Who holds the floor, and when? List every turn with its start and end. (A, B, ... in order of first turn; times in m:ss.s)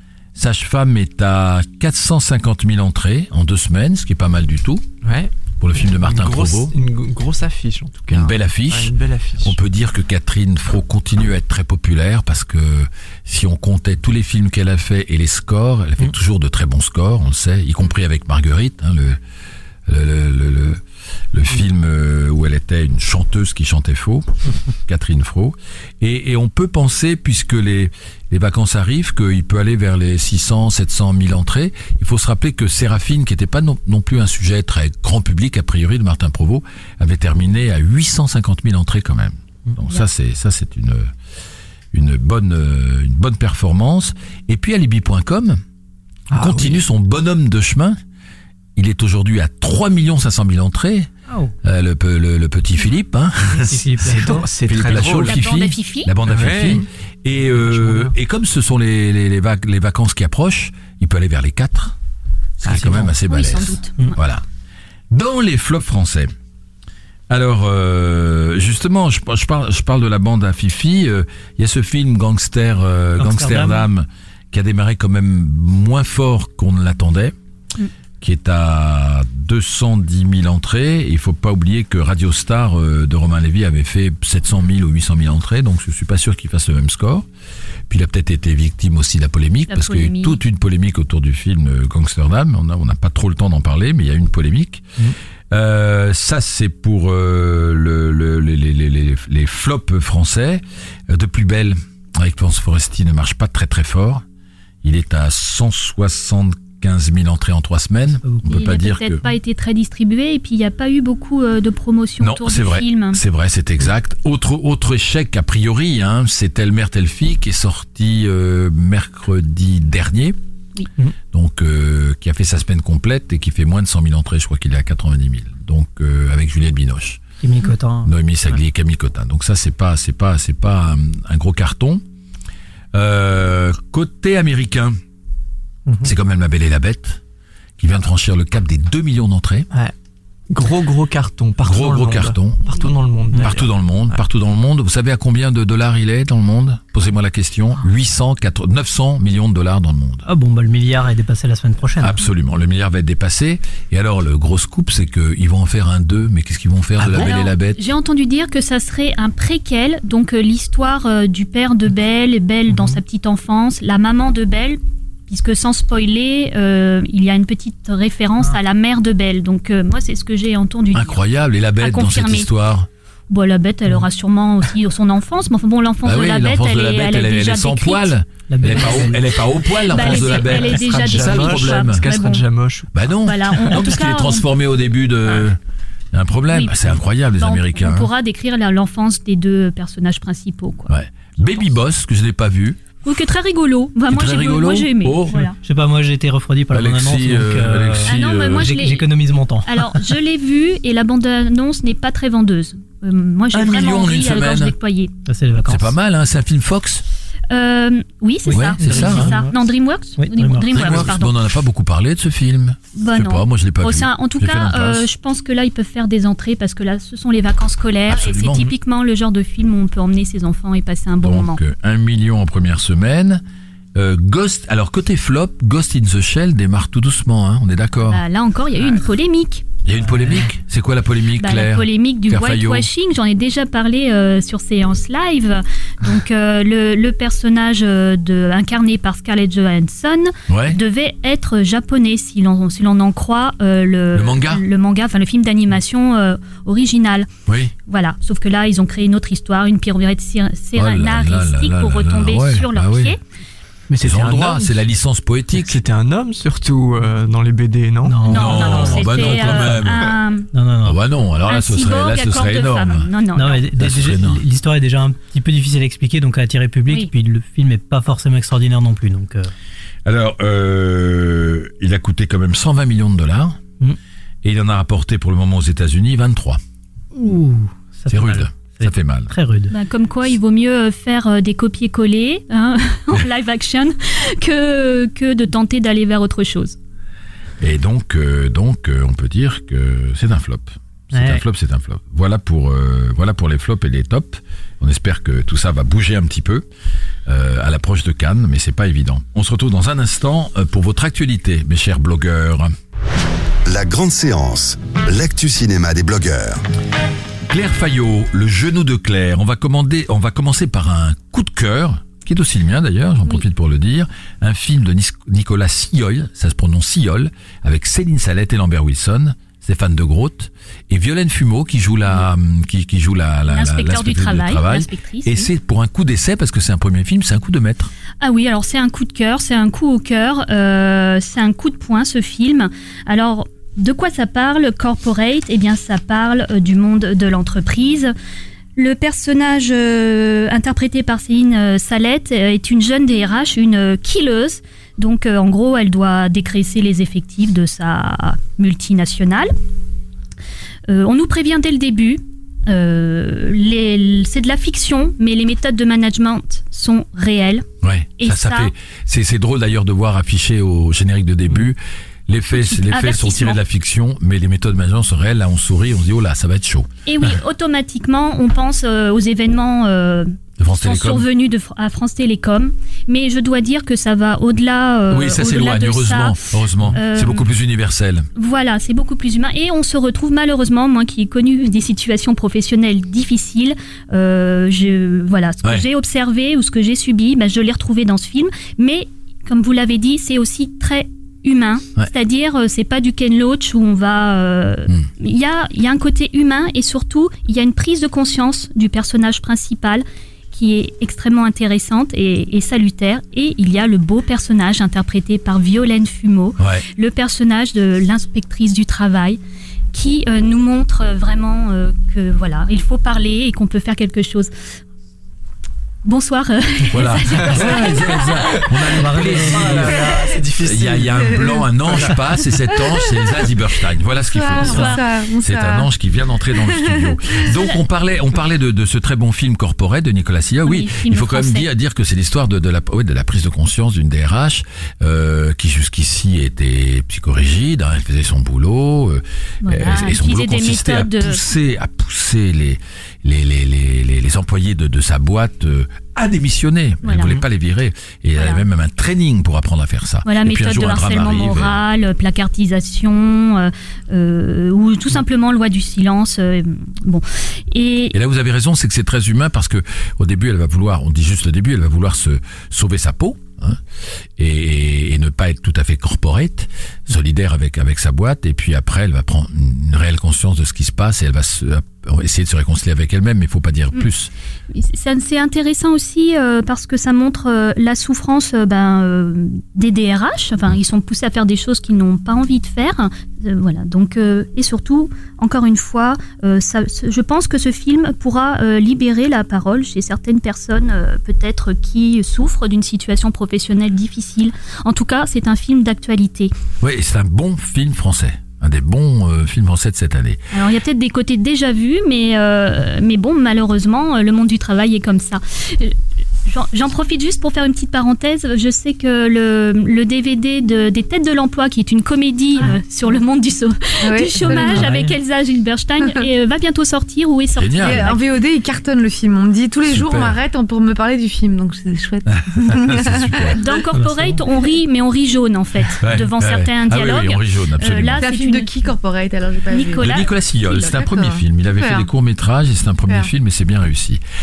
0:00.4-0:04.9 A
0:05.0-0:05.3 B
0:05.6-0:06.7 A
0:05.8-0:09.6 B
0:08.1-0:19.2 A
0:19.9-0:20.8 A
0:21.3-0:24.3 A
0:24.8-0:41.1 A
0:41.9-0:45.6 A
0:46.3-0:46.8 B
0:46.4-0:48.0 A
0:48.8-0:51.1 A
0:51.6-1:02.0 A
0:53.7-0:54.4 C
0:54.0-0:55.4 B
0:54.9-0:56.1 D
0:56.3-0:56.9 B
0:57.8-0:58.1 C
1:02.6-1:04.4 A
1:02.6-1:03.1 B
1:03.3-1:04.2 D
1:05.1-1:06.3 A
1:07.3-1:17.4 A
1:13.2-1:13.9 C
1:18.2-1:27.3 A
1:27.9-1:34.8 A
1:29.7-1:30.4 D
1:35.5-1:44.2 A
1:44.8-1:49.2 A
1:48.5-1:53.2 D
1:52.2-2:00.4 A
2:01.3-2:07.2 A
2:07.4-2:08.1 C
2:08.0-2:12.0 A
2:12.9-2:15.0 A
2:15.9-2:16.1 C
2:16.0-2:17.2 A
2:17.8-2:19.7 A
2:20.5-2:24.2 B
2:21.6-2:22.7 A
2:23.3-2:30.2 A
2:30.3-2:32.2 C
2:32.0-2:37.8 A
2:37.1-2:51.2 D
2:42.7-2:43.0 C
2:50.9-2:52.9 A
2:51.8-2:52.5 D
2:53.3-2:58.1 D
2:56.0-3:02.1 A
2:58.5-2:59.2 C
2:58.7-2:59.0 D
2:59.9-3:02.5 D
3:00.0-3:02.9 B
3:02.9-3:05.6 A
3:03.2-3:04.4 D
3:06.1-3:08.1 A
3:06.5-3:10.9 D
3:10.9-3:12.8 A
3:13.0-3:15.6 D
3:14.1-3:15.3 A
3:15.3-3:19.9 C
3:16.7-3:18.7 A
3:18.0-3:19.1 D
3:19.6-3:25.1 D
3:23.5-3:24.7 A
3:25.3-3:25.9 C
3:25.6-3:27.0 A
3:27.5-3:31.3 D
3:28.5-3:29.5 C
3:28.5-3:29.4 A
3:30.2-3:30.9 C
3:30.7-3:35.1 A
3:33.0-3:41.6 D
3:38.1-3:38.7 A
3:41.2-3:43.4 A
3:44.0-3:48.2 A
3:48.0-3:49.6 D
3:49.8-3:52.9 A
3:51.4-4:07.3 D
4:00.5-4:00.8 A
4:04.1-4:04.6 A
4:07.5-4:07.7 A
4:07.9-4:13.2 D
4:10.8-4:13.2 A
4:13.9-4:14.6 B
4:14.0-4:14.5 C
4:14.0-4:15.8 A
4:15.6-4:18.4 B
4:18.0-4:19.8 C
4:18.3-4:20.1 A
4:18.3-4:20.5 D
4:20.5-4:21.0 C
4:20.8-4:23.1 A
4:21.5-4:23.7 D
4:23.4-4:29.5 C
4:23.8-4:24.4 A
4:30.0-4:33.6 A
4:34.4-4:36.6 A
4:37.2-4:39.7 C
4:38.1-4:39.3 A
4:39.7-4:46.8 D
4:47.6-4:56.7 A
4:51.1-4:51.4 C
4:57.3-5:02.7 A
5:03.7-5:06.6 E
5:07.5-5:27.9 A
5:23.5-5:25.5 D
5:28.2-5:38.1 D
5:38.8-5:49.5 D
5:50.9-5:57.7 D
5:57.8-6:06.9 A
5:58.2-5:58.7 D
6:02.5-6:03.6 D
6:07.1-6:17.4 D
6:10.6-6:11.3 A
6:15.1-6:18.3 A
6:18.4-6:49.4 D
6:46.6-6:46.8 A
6:49.9-6:54.5 D
6:56.0-6:58.7 D
6:56.9-7:00.0 A
6:57.5-6:57.7 B
6:59.0-7:00.2 C
6:59.1-7:02.2 B
7:00.6-7:31.8 A
7:01.2-7:01.6 F
7:04.3-7:05.9 F
7:04.6-7:05.0 D
7:06.5-7:07.4 F
7:10.7-7:11.7 D
7:19.6-7:21.4 D
7:27.0-7:27.4 D
7:28.4-7:28.6 D
7:30.2-7:38.2 D
7:38.1-7:43.8 A
7:44.4-7:54.3 A
7:54.7-8:16.5 D
8:16.8-8:20.4 A
8:20.5-8:38.2 D
8:34.0-8:34.9 F
8:34.4-8:35.2 C
8:37.6-8:38.1 A
8:37.8-8:43.6 F
8:39.9-8:40.4 A
8:42.3-8:43.6 A
8:43.6-8:48.7 D
8:43.9-8:44.4 C
8:46.0-8:48.2 A
8:48.2-8:52.1 F
8:49.7-8:50.3 D
8:50.0-8:54.2 A